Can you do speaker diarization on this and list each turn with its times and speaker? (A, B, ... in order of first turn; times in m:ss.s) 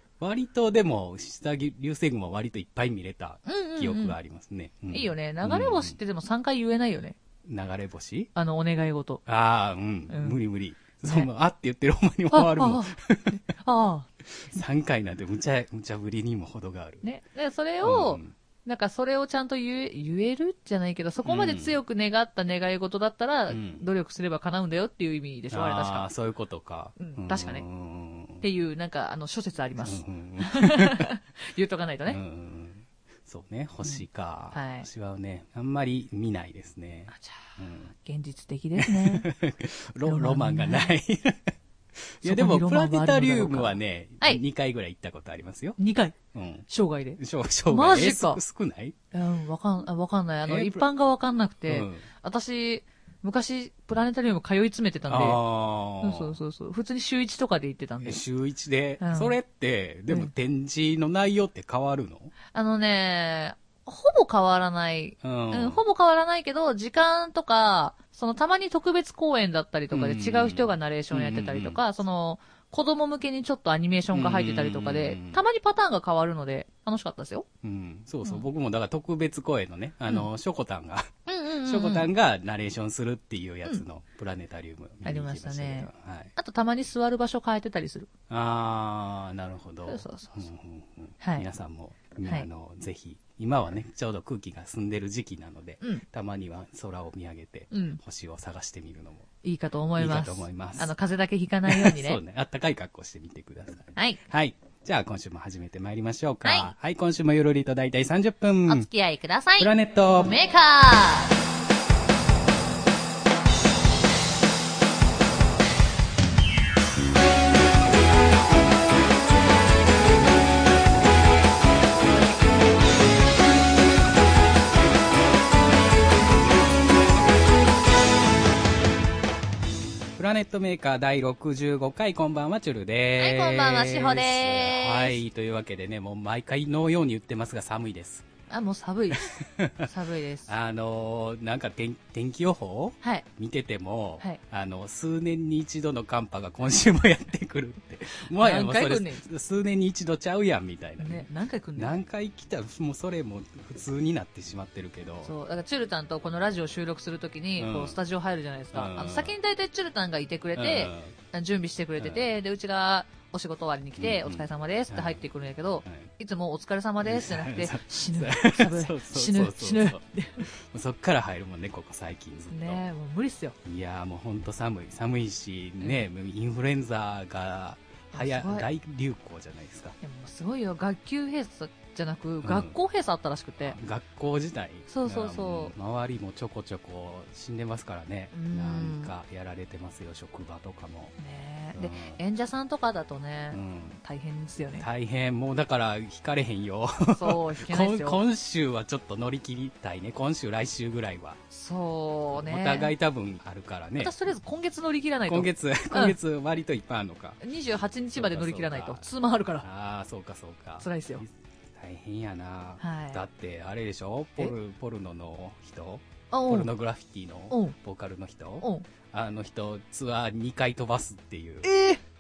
0:00.2-0:06.0 A
0:03.4-0:04.2 B
0:04.9-0:07.2 B
0:07.4-0:08.3 A
0:08.3-0:09.2 B
0:09.2-0:13.4 A
0:10.1-0:10.4 B
0:12.3-0:14.1 B
0:14.2-0:17.0 A
0:17.0-0:26.1 B
0:17.8-0:18.3 A
0:21.2-0:21.8 A
0:23.5-0:23.8 A
0:25.5-0:28.4 A
0:27.0-0:27.6 B
0:28.4-0:32.2 B
0:29.8-0:31.1 A
0:32.1-0:37.9 A
0:33.8-0:34.9 B
0:37.1-0:39.3 B
0:38.8-0:45.8 A
0:40.0-0:40.9 B
0:42.2-0:44.4 B
0:45.8-0:46.1 B
0:46.3-0:49.0 A
0:46.7-0:48.4 B
0:49.1-0:55.4 B
0:50.4-0:50.8 A
0:51.7-0:52.0 A
0:55.1-0:56.4 A
0:56.0-0:58.2 B
0:58.0-1:02.3 A
0:59.0-0:59.4 B
1:02.5-1:17.4 B
1:05.2-1:05.8 A
1:09.9-1:11.8 A
1:14.1-1:15.4 A
1:17.6-1:21.1 A
1:21.3-1:22.1 B
1:21.6-1:26.3 A
1:25.0-1:28.1 B
1:28.3-1:39.3 A
1:29.8-1:30.5 B
1:31.2-1:31.5 B
1:37.7-1:38.0 B
1:39.4-1:42.2 B
1:40.0-1:40.9 A
1:41.6-1:48.9 A
1:43.9-1:44.2 B
1:46.4-1:46.7 B
1:48.7-1:51.4 B
1:49.6-1:50.4 A
2:10.1-2:18.2 A
2:13.2-2:15.2 B
2:18.5-2:20.5 B
2:19.2-2:19.9 A
2:20.4-2:31.2 A
2:28.3-2:29.2 B
2:31.0-2:32.0 B
2:31.8-2:35.3 A
2:35.2-2:50.5 B
2:37.6-2:38.0 A
2:38.7-2:39.4 A
2:40.5-2:41.1 A
2:42.0-2:42.2 A
2:44.0-2:45.2 A
2:45.8-2:46.1 A
2:47.0-2:52.8 A
2:52.5-2:53.6 B
2:53.6-3:00.0 A
2:58.1-2:58.7 B
3:00.0-3:03.8 B
3:02.4-3:02.8 A
3:03.6-3:11.1 A
3:04.9-3:05.7 B
3:08.3-3:09.1 B
3:11.2-3:14.8 B
3:11.7-3:12.2 A
3:13.5-3:14.0 A
3:14.8-3:21.4 A
3:17.1-3:18.2 B
3:21.5-3:22.9 B
3:22.3-3:24.1 A
3:24.0-3:26.2 B
3:25.2-3:27.4 A
3:27.4-3:29.6 B
3:28.1-3:29.1 A
3:29.6-3:41.7 A
3:30.8-3:31.2 B
3:32.8-3:33.2 B
3:36.3-3:36.7 B
3:37.5-3:37.7 B
3:41.6-3:42.0 B